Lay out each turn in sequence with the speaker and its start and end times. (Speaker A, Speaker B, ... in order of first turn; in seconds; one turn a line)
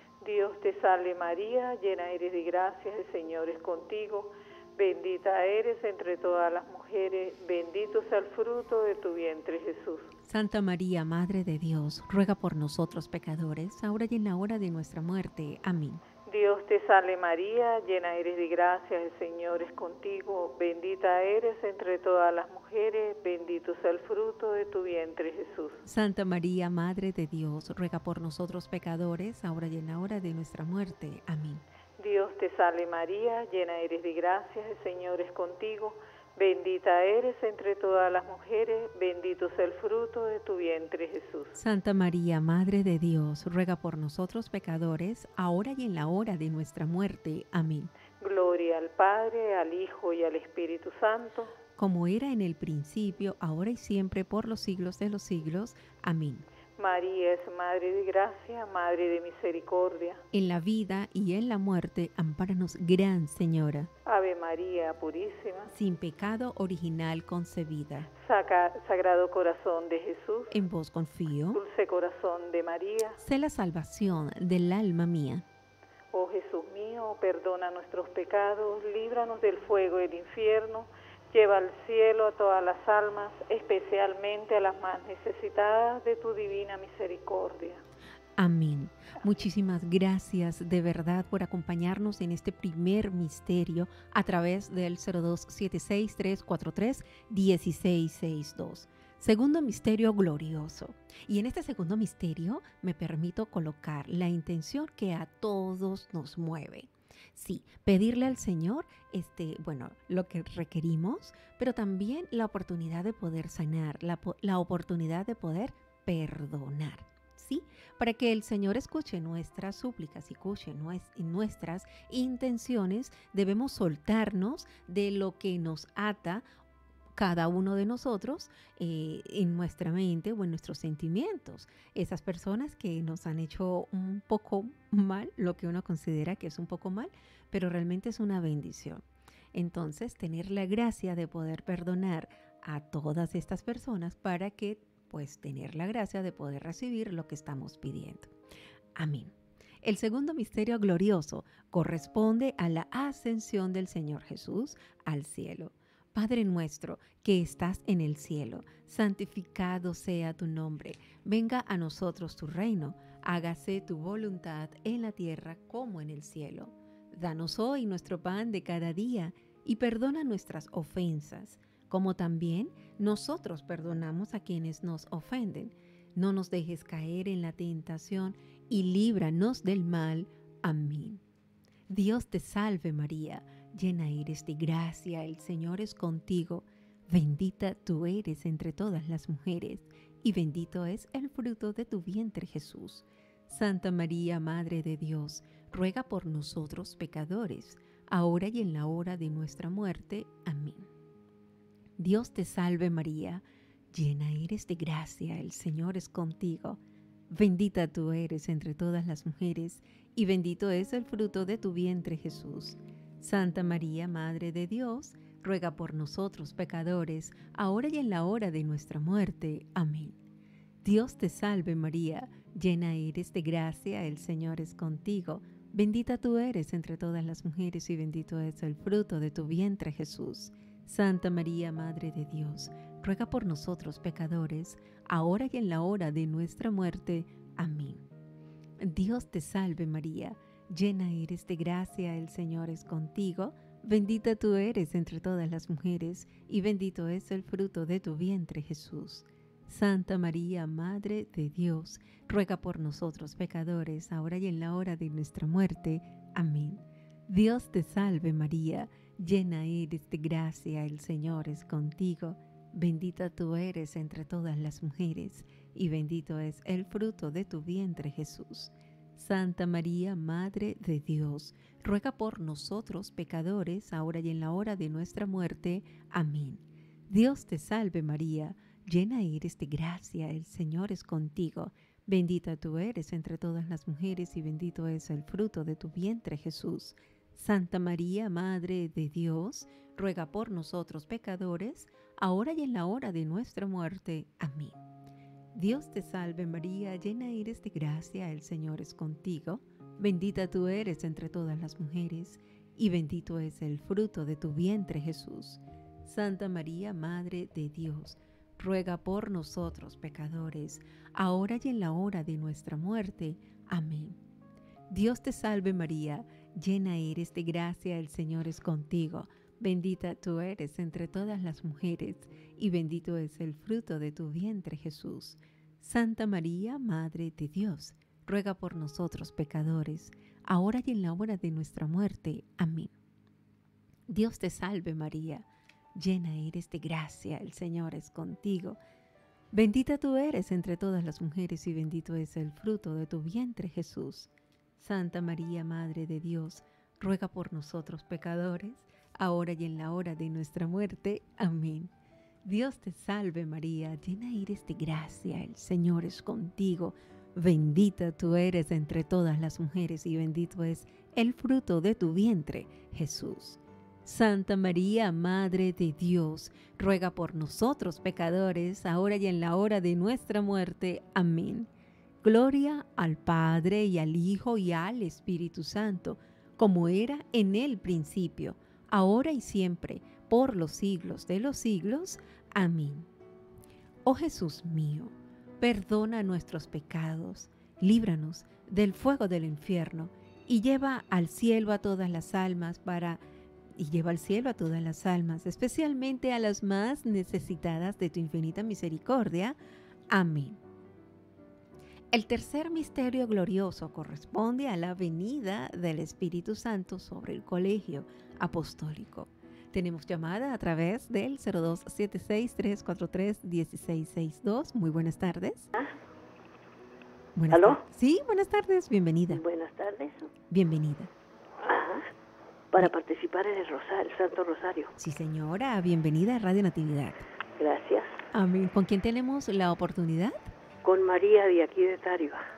Speaker A: 0.2-10.1
Speaker B: 10.2-16.0
Speaker A: 16.2-25.8
Speaker B: 25.9-31.6
Speaker A: 32.0-41.6
Speaker B: 41.5-47.9
Speaker A: 48.2-51.5
Speaker B: 51.8-56.5
Speaker A: 56.8-60.2
Speaker B: 60.3-63.9
Speaker A: 64.0-65.7
Speaker B: 65.7-68.1
Speaker A: 68.2-70.5
Speaker B: 70.5-71.6
Speaker A: 71.5-73.2
Speaker B: 73.2-75.4
Speaker A: 76.1-87.8
Speaker B: 88.4-126.4
Speaker B: 127.1-148.3
Speaker B: 148.9-181.2
Speaker B: 181.9-200.9
Speaker B: 202.0-206.8
Speaker B: 207.3-220.2
Speaker B: 220.8-238.0
Speaker B: 238.8-294.8
Speaker B: 295.5-314.1
Speaker B: 314.9-332.9
Speaker B: 334.1-338.8
Speaker B: 339.5-351.9
Speaker B: 352.4-371.7
Speaker B: 372.2-383.1
Speaker B: 384.0-393.2
Speaker B: 393.8-399.6
Speaker B: 400.1-400.6
Speaker B: 402.1-415.7
Speaker B: 417.3-419.4
Speaker C: 417.5-417.8
Speaker C: 419.3-420.3
Speaker B: 420.5-421.1
Speaker C: 421.6-422.1
Speaker C: 422.7-424.9
Speaker B: 425.0-427.2
Speaker C: 427.6-428.2
Speaker B: 428.3-430.4
Speaker C: 430.8-432.4